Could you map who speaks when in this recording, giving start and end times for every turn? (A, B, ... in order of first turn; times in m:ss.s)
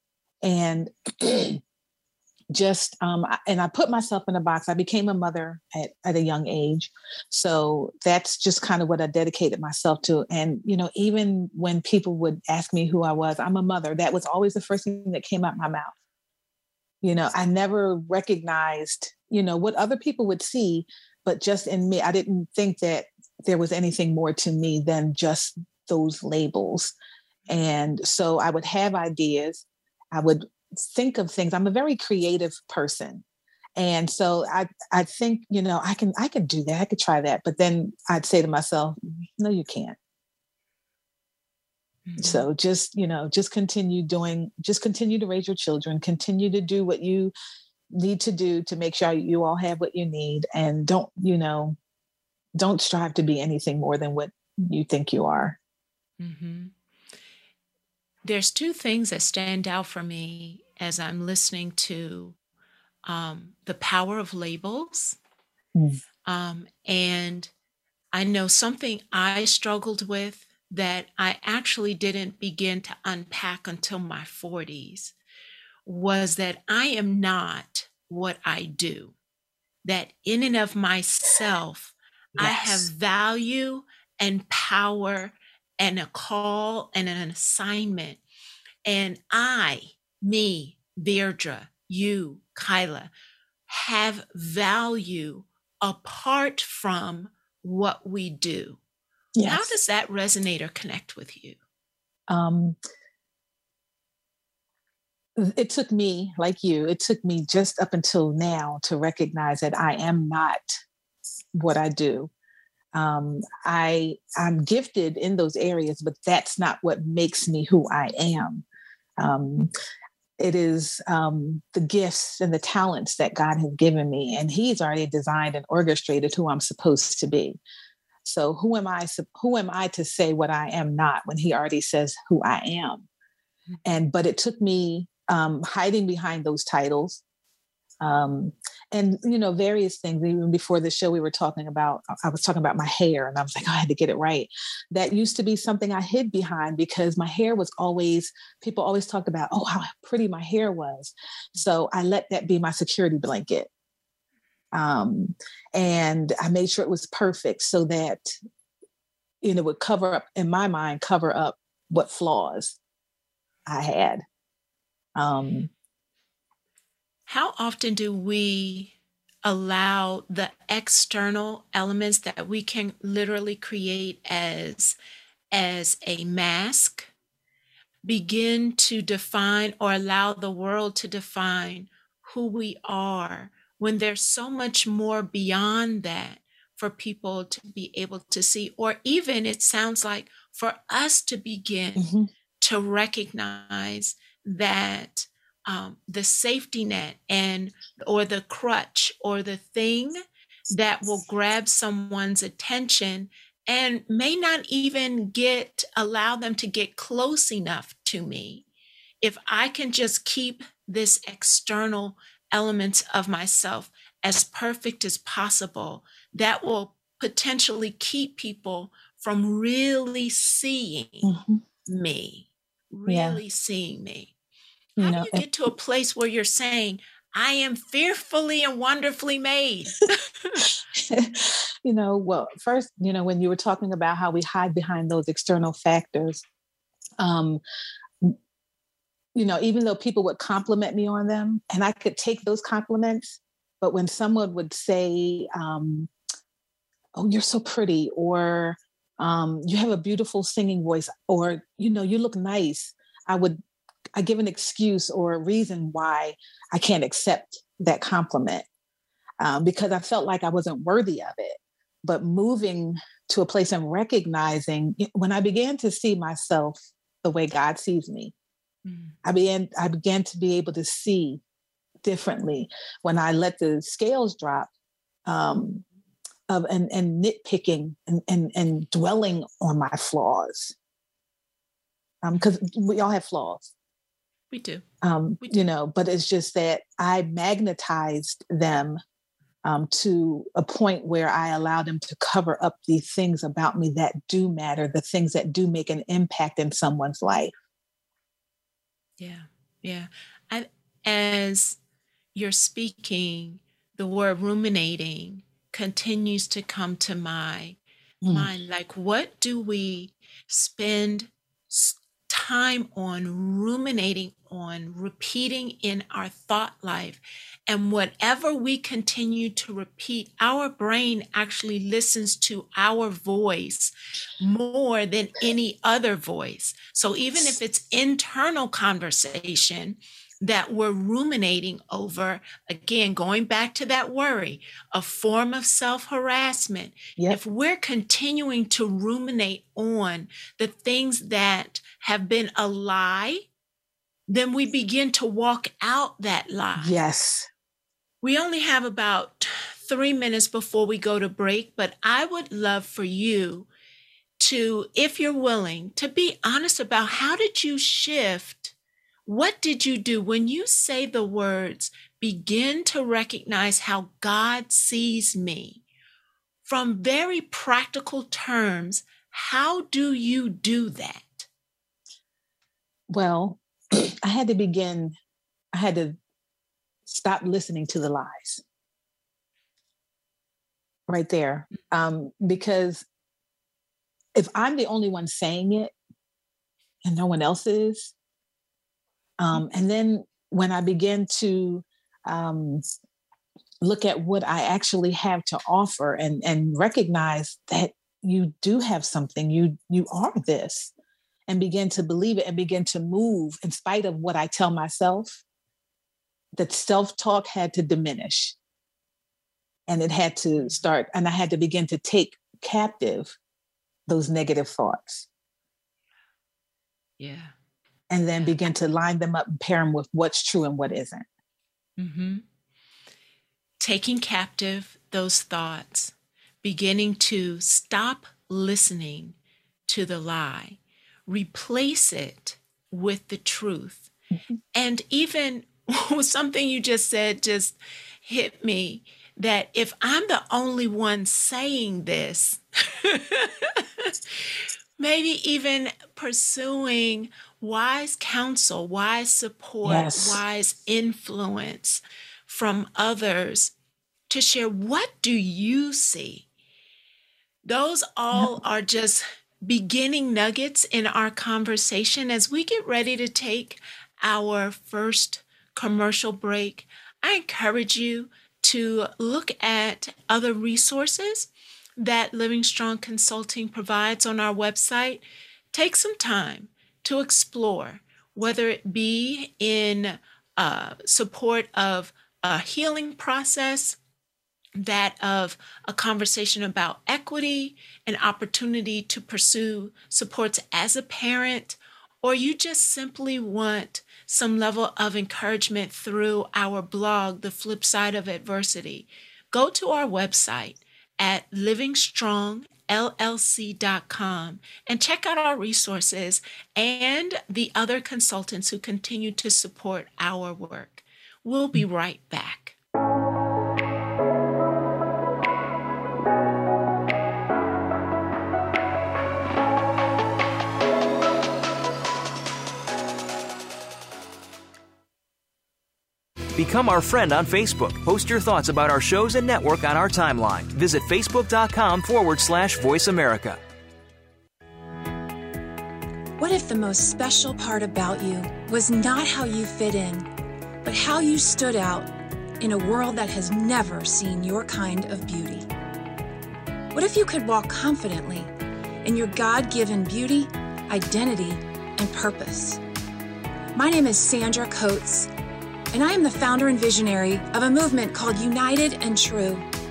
0:00.4-0:01.6 A
0:02.5-0:15.9 A
0:17.0-0:26.9 A
0:27.5-0:33.2 A
0:33.8-0:40.0 A
0:42.0-0:42.4 B
0:42.2-0:47.3 A
0:47.9-0:51.8 A
0:52.6-0:55.6 A
0:56.2-0:56.7 B
0:58.2-1:02.4 B
1:03.0-1:05.2 B
1:06.2-1:07.5 B
1:08.1-1:15.1 B
1:15.8-1:19.1 B
1:19.8-1:28.2 B
1:22.4-1:22.9 A
1:28.8-1:33.1 B
1:33.7-1:38.8 B
1:39.4-1:39.7 A
1:39.4-1:41.6 B
1:42.3-1:42.8 A
1:45.4-1:50.8 A
1:51.5-1:52.3 A
1:52.9-1:58.6 A
1:59.2-1:59.7 A
2:00.4-2:07.6 A
2:08.2-2:13.1 A
2:13.8-2:17.2 A
2:18.0-2:33.7 A
2:34.7-2:38.3 A
2:39.4-2:42.8 A
2:43.6-2:44.2 A
2:45.2-2:45.7 A
2:47.3-2:48.9 B
2:49.4-2:55.0 B
2:55.5-2:57.1 B
2:58.0-3:12.0 B
3:12.0-3:12.3 A
3:12.6-3:20.2 B
3:20.7-3:28.6 B
3:29.2-3:41.3 B
3:41.2-3:41.6 A
3:41.8-3:44.3 B
3:43.1-3:43.4 A
3:45.0-3:45.4 A
3:45.0-3:50.6 B
3:50.9-3:56.4 A
3:57.2-3:57.6 A
3:59.3-4:06.1 A
4:07.1-4:13.6 A
4:14.1-4:18.6 A
4:19.4-4:28.3 A
4:28.8-4:29.1 B
4:29.2-4:31.4 A
4:32.0-4:34.7 A
4:35.2-4:35.8 A
4:36.5-4:40.7 A
4:42.2-4:43.7 A
4:44.5-4:44.8 B
4:45.0-4:49.0 A
4:49.6-4:57.5 A
4:59.2-5:01.8 B
5:02.3-5:07.8 B
5:08.2-5:08.5 A
5:08.3-5:43.5 B
5:44.3-5:46.9 B
5:46.8-5:47.5 A
5:48.2-5:53.7 B
5:54.4-5:58.7 B
5:59.2-6:05.8 B
6:06.6-6:11.5 B
6:13.1-6:15.2 A
6:15.7-6:16.2 A
6:17.1-6:18.6 A
6:21.1-6:23.0 A
6:24.3-6:25.9 A
6:27.0-6:28.1 A
6:29.4-6:32.8 A
6:33.8-6:40.9 A
6:41.5-6:45.4 A
6:46.5-6:48.5 A
6:49.9-6:53.4 A
6:54.1-6:55.2 A
6:57.2-6:57.5 B
6:58.1-7:01.2 A
7:02.0-7:02.4 B
7:03.8-7:09.4 B
7:09.9-7:14.1 B
7:14.7-7:33.7 B
7:29.8-7:30.4 A
7:34.3-7:36.4 B
7:37.6-7:55.2 B
7:55.7-8:04.0 B
8:04.8-8:32.8 B
8:46.6-8:53.6 C
8:56.4-9:00.3 D
9:00.8-9:05.7 D
9:06.9-9:08.5 D
9:09.0-9:12.8 D
9:13.7-9:15.3 D
9:15.9-9:19.6 D